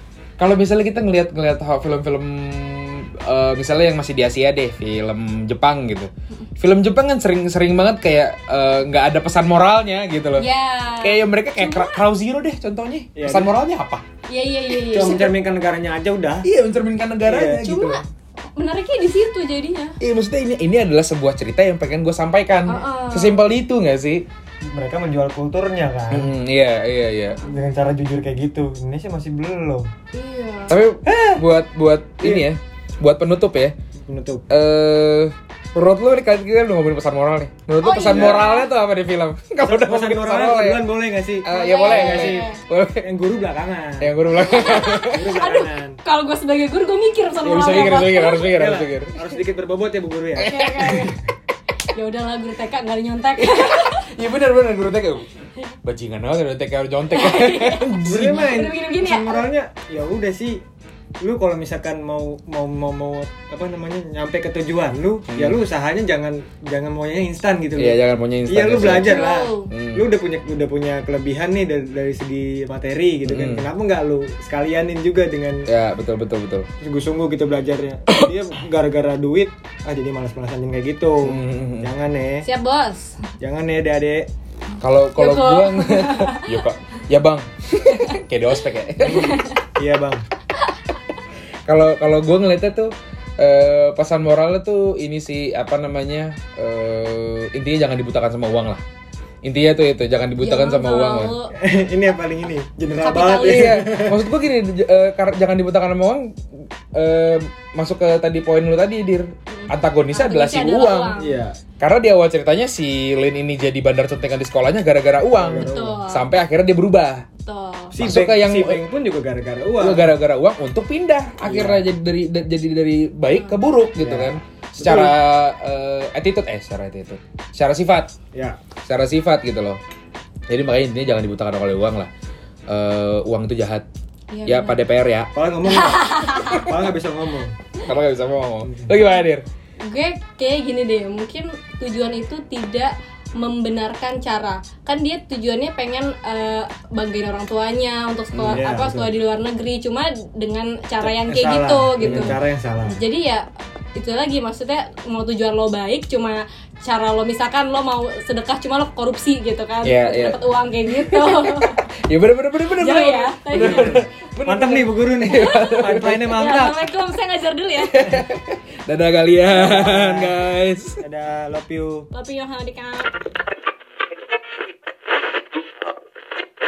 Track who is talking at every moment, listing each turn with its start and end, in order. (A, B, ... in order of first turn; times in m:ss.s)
0:00.4-0:10.5 A
0:10.4-0:12.0 B
0:11.0-0:14.0 A
0:13.1-0:13.6 C
0:14.3-0:15.3 B
0:14.9-0:16.4 C
0:16.4-0:18.0 A
0:17.2-0:17.6 C
0:17.6-0:18.0 B
0:18.6-0:20.0 B
0:20.0-0:24.2 A
0:22.7-0:23.4 B
0:24.7-0:26.3 C
0:26.1-0:27.4 A
0:27.4-0:29.9 C
0:30.1-0:30.8 B
0:30.7-0:33.7 A
0:31.0-0:31.4 C
0:32.2-0:32.5 C
0:34.1-0:34.4 C
0:34.5-0:40.8 A
0:37.8-0:38.7 B
0:38.0-0:38.4 C
0:39.6-0:42.5 C
0:41.4-0:43.0 A
0:41.5-0:42.6 B
0:43.0-0:46.0 C
0:44.0-0:45.2 A
0:44.4-0:48.5 B
0:47.4-0:49.1 A
0:47.7-0:51.0 C
0:50.4-0:51.1 A
0:50.4-0:51.2 B
0:51.9-0:54.1 B
0:53.4-0:55.3 A
0:55.8-0:58.4 A
0:57.1-0:59.5 B
0:58.0-1:00.6 C
1:01.2-1:15.7 C
1:05.3-1:05.6 A
1:07.8-1:09.1 A
1:08.8-1:09.7 B
1:09.7-1:10.0 A
1:13.2-1:13.7 A
1:15.7-1:16.7 A
1:16.8-1:22.5 C
1:21.2-1:21.9 A
1:22.4-1:23.2 B
1:23.4-1:24.3 C
1:24.8-1:29.4 A
1:25.2-1:26.6 B
1:27.9-1:28.2 B
1:29.0-1:29.6 B
1:29.1-1:30.2 C
1:31.7-1:38.8 A
1:39.4-1:41.3 A
1:40.4-1:41.5 B
1:41.5-1:44.2 C
1:43.0-1:43.9 B
1:43.4-1:46.4 A
1:46.9-1:51.1 A
1:49.5-1:51.3 B
1:51.2-1:51.6 C
1:51.8-1:57.2 A
1:55.3-1:56.0 C
1:55.6-1:56.2 B
1:57.4-1:57.9 B
1:57.9-2:00.1 C
1:58.0-1:58.8 A
1:59.8-2:08.1 A
2:01.4-2:01.8 C
2:03.3-2:03.6 B
2:04.0-2:05.1 C
2:08.3-2:08.6 C
2:08.8-2:09.8 A
2:10.5-2:12.1 A
2:12.7-2:13.8 A
2:14.3-2:14.8 B
2:14.4-2:15.3 A
2:15.3-2:17.6 C
2:15.6-2:16.7 B
2:17.8-2:19.4 A
2:19.8-2:33.4 B
2:28.3-2:28.6 A
2:28.5-2:29.1 C
2:31.0-2:33.0 C
2:32.0-2:32.4 A
2:34.0-2:41.8 B
2:39.8-2:40.4 A
2:40.9-2:46.3 A
2:42.8-2:44.0 B
2:43.5-2:46.8 C
2:45.3-2:48.1 B
2:47.9-2:51.0 A
2:49.5-2:50.3 C
2:51.0-2:52.1 C
2:52.1-2:53.1 B